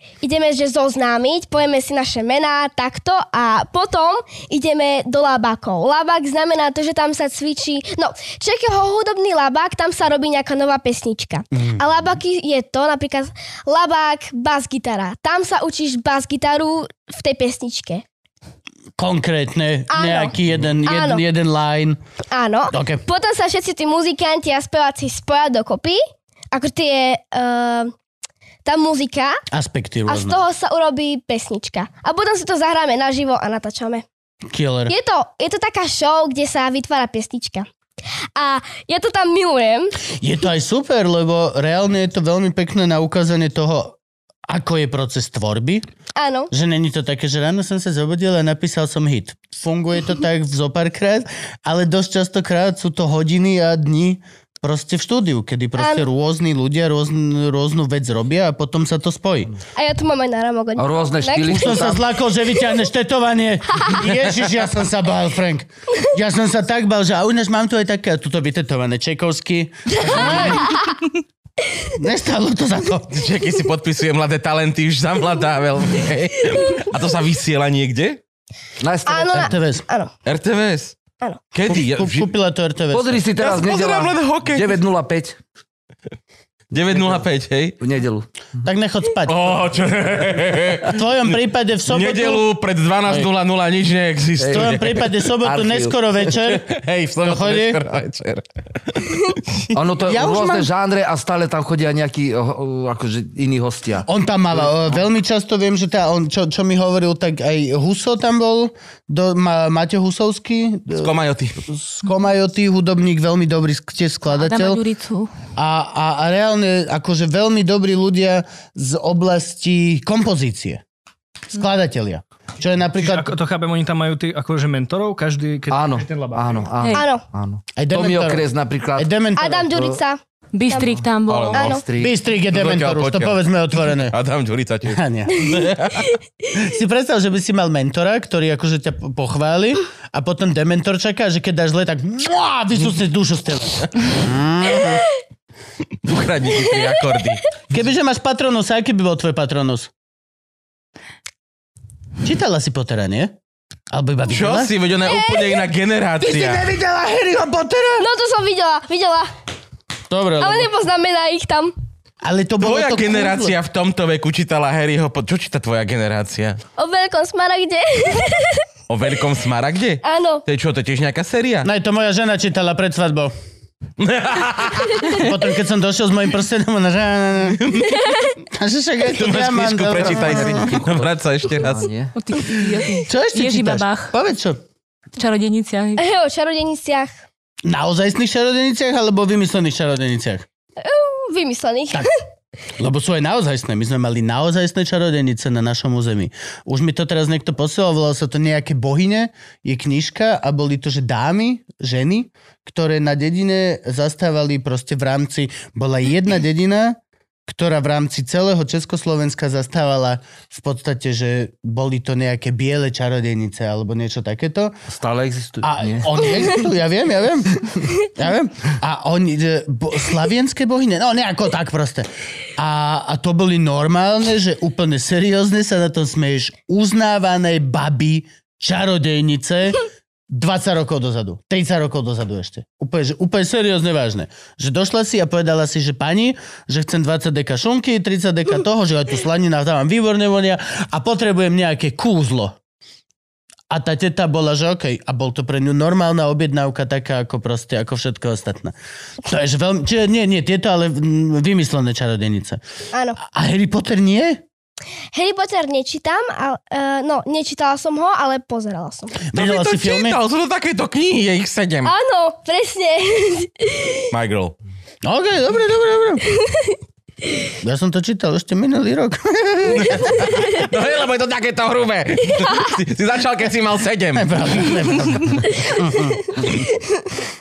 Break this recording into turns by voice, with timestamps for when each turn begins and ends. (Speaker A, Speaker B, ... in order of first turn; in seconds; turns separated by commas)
Speaker A: 0.2-18.0, Speaker B: 11.5-11.8, Speaker B: 19.0-22.0, Speaker A: 19.9-20.3, Speaker A: 20.9-21.2, Speaker A: 22.3-26.0, Speaker B: 22.7-23.0, Speaker A: 26.5-27.9, Speaker A: 28.6-29.4, Speaker B: 29.5-30.4, Speaker A: 30.1-34.0, Speaker B: 34.5-34.9, Speaker A: 34.9-37.6, Speaker A: 38.4-40.0, Speaker B: 40.2-44.0, Speaker B: 44.5-45.8, Speaker A: 46.1-46.5, Speaker B: 46.5-59.5, Speaker A: 55.8-56.0, Speaker A: 59.8-61.9, Speaker C: 60.8-62.0, Speaker B: 61.5-70.7, Speaker A: 70.3-70.8, Speaker B: 71.9-73.3, Speaker D: 73.1-78.2, Speaker C: 78.8-79.5, Speaker A: 79.0-80.1, Speaker B: 79.3-79.8, Speaker D: 80.2-81.0, Speaker D: 81.5-82.3, Speaker B: 81.7-83.2, Speaker C: 82.9-85.4, Speaker D: 83.4-84.8, Speaker D: 86.7-87.8, Speaker C: 86.9-87.2, Speaker C: 87.8-88.6, Speaker B: 88.6-89.5, Speaker D: 89.2-91.0, Speaker B: 90.8-92.4, Speaker D: 91.9-95.1, Speaker C: 94.4-96.0, Speaker B: 94.5-96.7, Speaker D: 96.4-99.7, Speaker B: 97.2-97.8, Speaker C: 99.7-104.7, Speaker B: 100.0-100.7, Speaker B: 104.0-111.1, Speaker D: 111.0-111.6, Speaker B: 111.7-114.8, Speaker E: 114.3-115.3, Speaker B: 115.5-120.8, Speaker B: 121.5-123.3, Speaker F: 123.0-126.7, Speaker C: 125.7-129.1, Speaker E: 126.8-127.1, Speaker A: 126.9-127.2, Speaker B: 127.8-128.4, Speaker B: 128.9-129.9, Speaker A: 129.3-130.9, Speaker E: 130.5-131.7, Speaker D: 131.3-131.8, Speaker A: 131.5-131.8, Speaker C: 131.5-132.1, Speaker B: 131.9-134.1, Speaker D: 132.5-136.1, Speaker B: 134.8-135.5, Speaker B: 136.5-145.0, Speaker D: 146.0-147.5, Speaker B: 147.7-149.9, Speaker B: 152.2-153.3, Speaker B: 153.9-154.7, Speaker D: 154.3-156.7, Speaker A: 155.0-155.6, Speaker B: 156.2-158.1, Speaker A: 158.0-159.3, Speaker B: 160.1-160.7, Speaker A: 160.4-161.7, Speaker B: 162.2-163.5, Speaker D: 162.6-166.6, Speaker A: 166.8-168.6, Speaker D: 168.9-171.7, Speaker A: 170.0-170.4, Speaker B: 171.6-173.3, Speaker D: 174.0-175.1, Speaker B: 175.0-177.7, Speaker D: 177.6-178.0, Speaker A: 177.9-178.3, Speaker B: 178.5-180.8, Speaker D: 179.1-181.9, Speaker C: 180.1-182.1, Speaker E: 182.2-184.1, Speaker B: 183.0-184.6, Speaker E: 185.2-186.0, Speaker A: 186.0-187.1, Speaker B: 187.6-190.4, Speaker A: 190.8-192.1, Speaker B: 192.8-214.7, Speaker C: 214.9-216.5, Speaker B: 215.6-242.6, Speaker B: 243.7-252.6, Speaker A: 252.9-253.2, Speaker B: 253.2-254.4, Speaker A: 255.1-259.2, Speaker B: 259.2-260.2, Speaker D: 259.3-261.9, Speaker A: 261.8-264.1, Speaker D: 264.1-264.6, Speaker B: 265.0-266.2, Speaker A: 266.3-266.8, Speaker B: 267.6-270.2, Speaker D: 269.7-274.8, Speaker B: 274.1-276.5